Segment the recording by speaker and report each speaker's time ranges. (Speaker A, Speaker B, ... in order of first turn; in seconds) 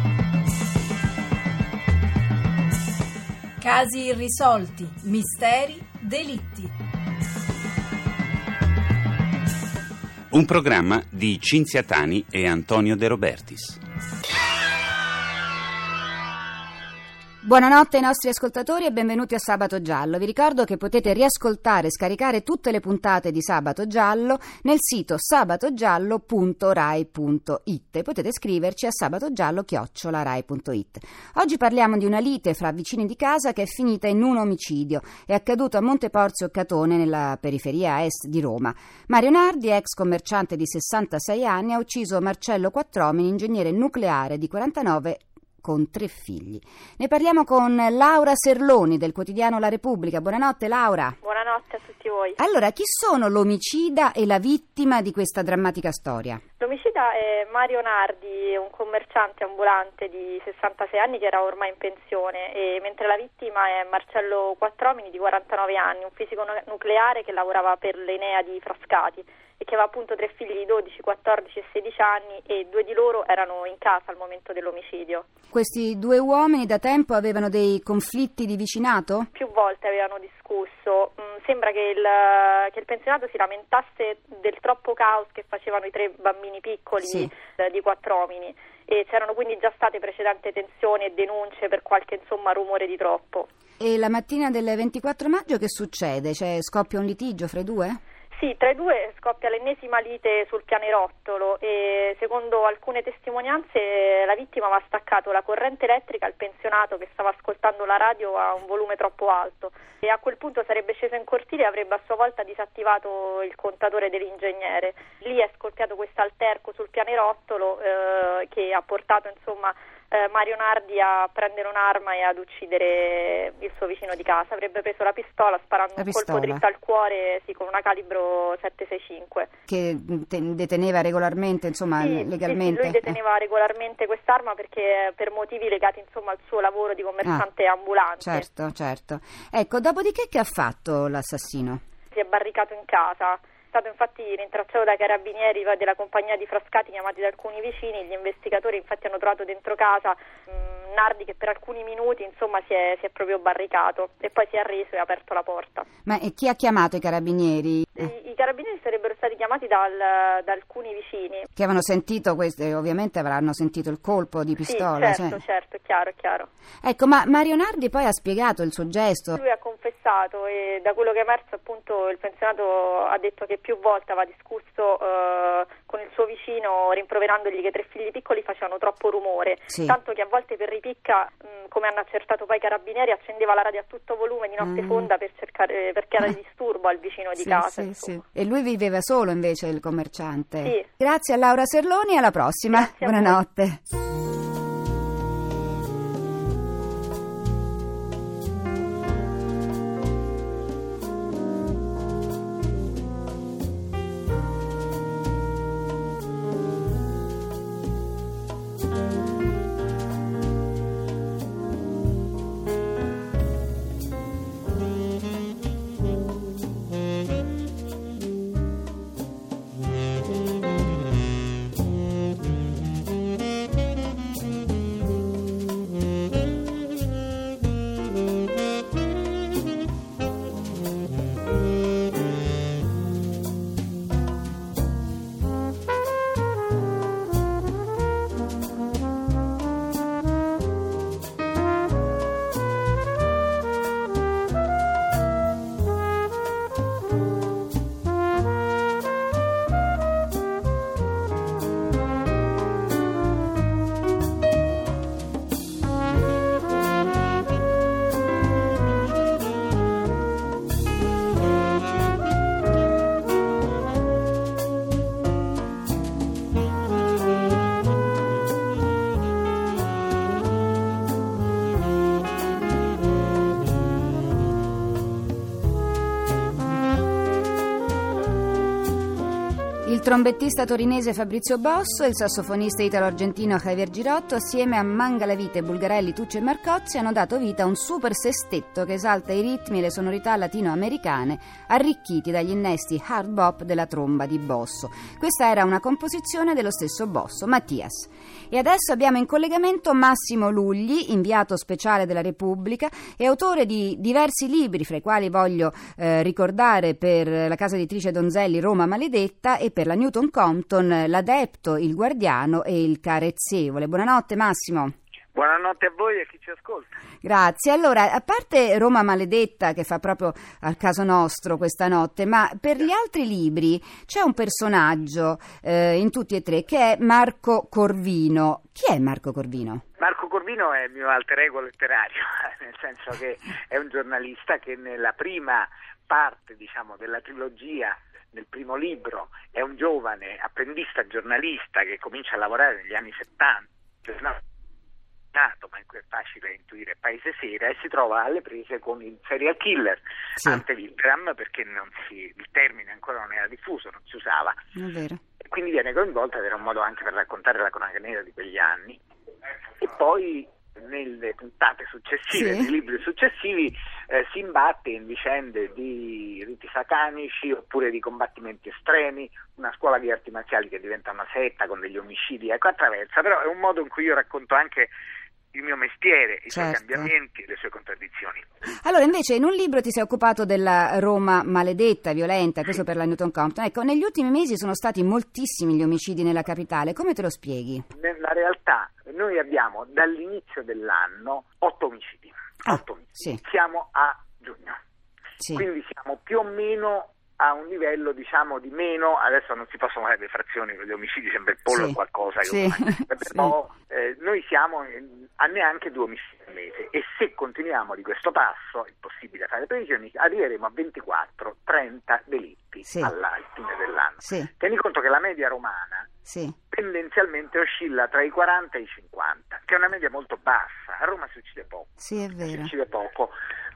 Speaker A: 3.6-6.7
Speaker B: 10.3-13.8
Speaker C: 17.4-51.2, 52.4-56.4, 75.5-79.3, 87.0-87.3, 93.8-98.0, 126.0-126.6, 129.7-133.2, 138.2-141.8, 156.1-158.1, 161.6-165.4, 166.8-169.4, 179.7-180.0, 184.6-185.1, 187.4-193.8, 279.8-314.9, 317.2-329.8, 354.8-355.2, 362.3-362.7, 376.5-377.1, 378.8-387.9, 392.6-393.4, 395.4-395.6, 401.7-403.5, 412.9-413.1, 414.2-414.5, 416.3-416.6, 422.0-422.7
Speaker D: 51.2-52.4, 56.6-75.2, 79.3-93.5, 98.3-129.5, 132.0-138.4, 142.1-155.9, 158.0-161.5, 164.7-166.5, 169.3-188.1, 192.7-193.4
Speaker E: 315.3-317.0, 330.0-344.4, 345.3-354.6, 355.4-359.0, 359.8-374.9, 375.5-378.4, 387.9-394.8, 395.5-416.1, 416.7-421.9, 422.5-423.3